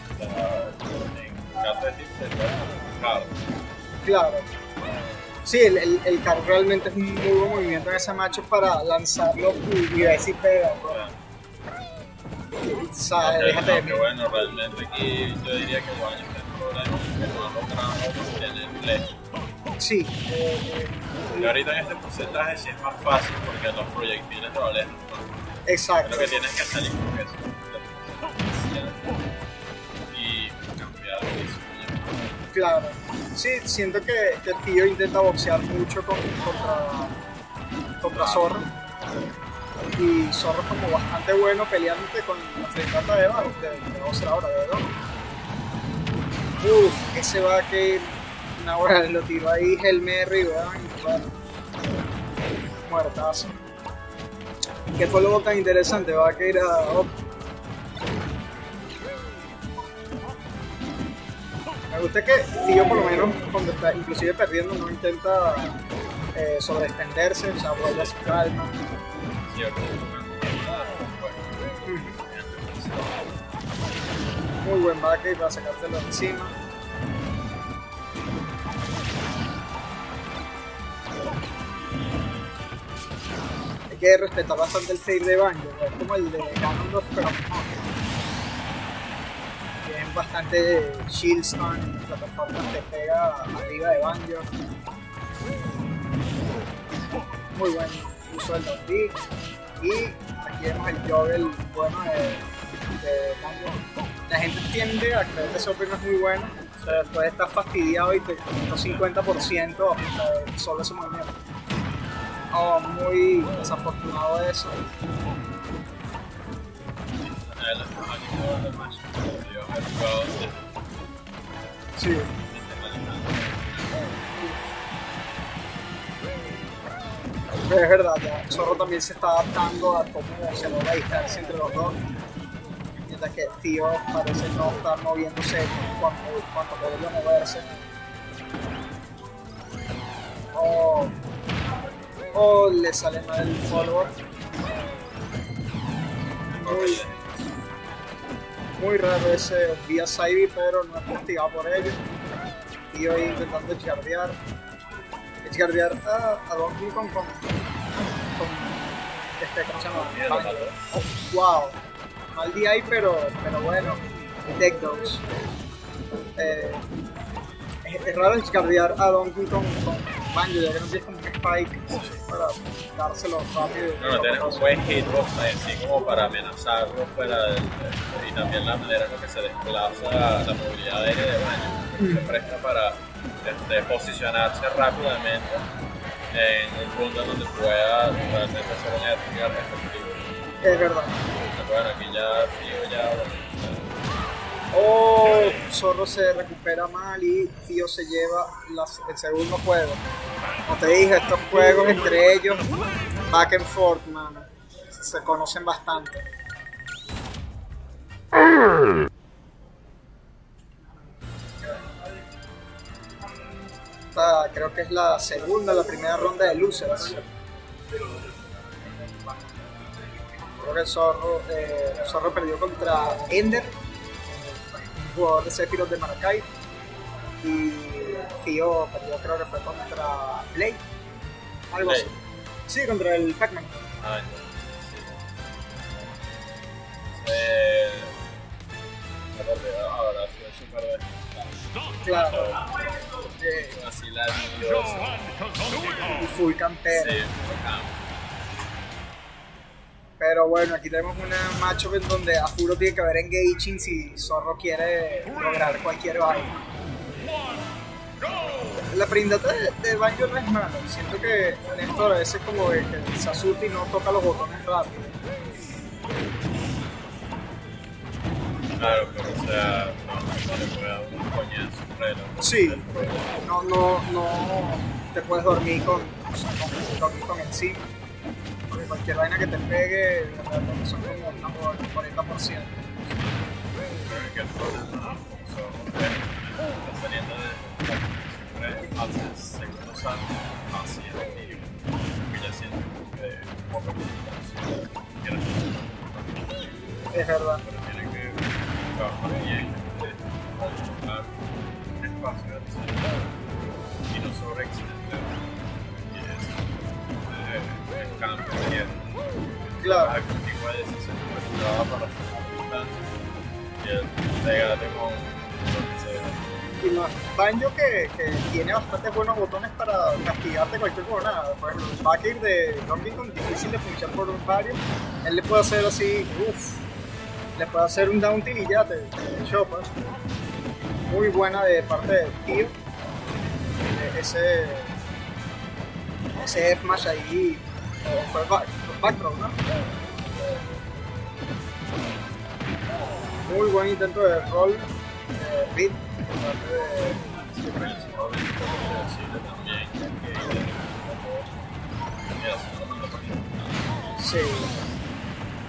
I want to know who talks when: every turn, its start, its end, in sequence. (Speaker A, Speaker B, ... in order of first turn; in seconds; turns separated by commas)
Speaker A: 0.2-3.4, Speaker B: 4.0-4.5, Speaker B: 5.5-11.1, Speaker A: 10.9-11.1, Speaker B: 12.6-14.1, Speaker A: 13.2-19.1, Speaker B: 19.8-21.5, Speaker A: 21.3-25.3, Speaker B: 25.7-26.4, Speaker A: 26.0-29.1, Speaker A: 30.1-32.3, Speaker B: 32.5-37.2, Speaker B: 38.0-38.7, Speaker A: 38.0-38.6, Speaker B: 40.0-44.9, Speaker B: 46.6-51.3, Speaker B: 52.8-53.6, Speaker B: 54.9-57.1, Speaker B: 61.9-65.8, Speaker B: 66.3-68.8, Speaker A: 67.8-68.5, Speaker A: 69.5-73.4, Speaker B: 71.9-72.2, Speaker B: 74.6-76.5, Speaker B: 83.9-87.7, Speaker B: 89.8-94.5, Speaker B: 97.5-99.2, Speaker B: 99.8-102.5, Speaker B: 103.0-111.3, Speaker A: 106.8-107.1, Speaker B: 112.5-114.8, Speaker A: 117.2-120.7, Speaker B: 122.0-122.3, Speaker A: 122.4-124.1, Speaker B: 124.4-124.6, Speaker B: 127.7-132.0, Speaker B: 133.0-137.7, Speaker B: 140.5-141.1, Speaker B: 142.3-144.1, Speaker A: 146.5-147.5, Speaker B: 146.6-147.0, Speaker B: 148.8-152.0, Speaker B: 152.9-154.4, Speaker B: 155.4-157.6, Speaker B: 158.2-161.8, Speaker A: 159.8-160.8, Speaker B: 162.3-165.3, Speaker B: 166.4-166.8, Speaker B: 167.8-174.8, Speaker A: 171.9-172.2, Speaker A: 174.0-185.7, Speaker B: 182.0-182.3, Speaker A: 186.3-190.3, Speaker B: 190.6-191.2, Speaker A: 191.4-193.9, Speaker B: 194.7-200.0, Speaker A: 195.2-195.7, Speaker B: 200.7-202.7, Speaker B: 203.3-206.2, Speaker B: 214.1-217.2, Speaker B: 220.6-223.7, Speaker B: 224.3-226.5, Speaker B: 227.4-230.8, Speaker B: 231.7-232.2, Speaker A: 231.8-232.1, Speaker B: 232.7-233.8, Speaker A: 234.0-235.1, Speaker A: 237.2-238.2, Speaker A: 239.3-242.8, Speaker B: 242.0-242.6, Speaker B: 243.4-243.8, Speaker A: 243.5-246.1, Speaker B: 246.0-247.2, Speaker A: 246.9-248.0, Speaker B: 250.2-256.5, Speaker B: 258.9-265.1, Speaker A: 268.8-273.4, Speaker B: 272.4-272.9, Speaker B: 273.4-277.9, Speaker B: 278.7-282.9, Speaker A: 284.0-301.3, Speaker B: 297.1-297.6, Speaker A: 302.0-303.4, Speaker A: 304.1-313.1, Speaker B: 309.8-310.2, Speaker A: 313.8-316.4, Speaker B: 316.8-326.8, Speaker B: 327.6-329.9, Speaker B: 331.1-332.7, Speaker B: 333.9-334.9, Speaker B: 336.4-339.6, Speaker B: 343.5-347.2, Speaker A: 347.5-351.5, Speaker A: 352.4-354.1, Speaker B: 354.2-354.8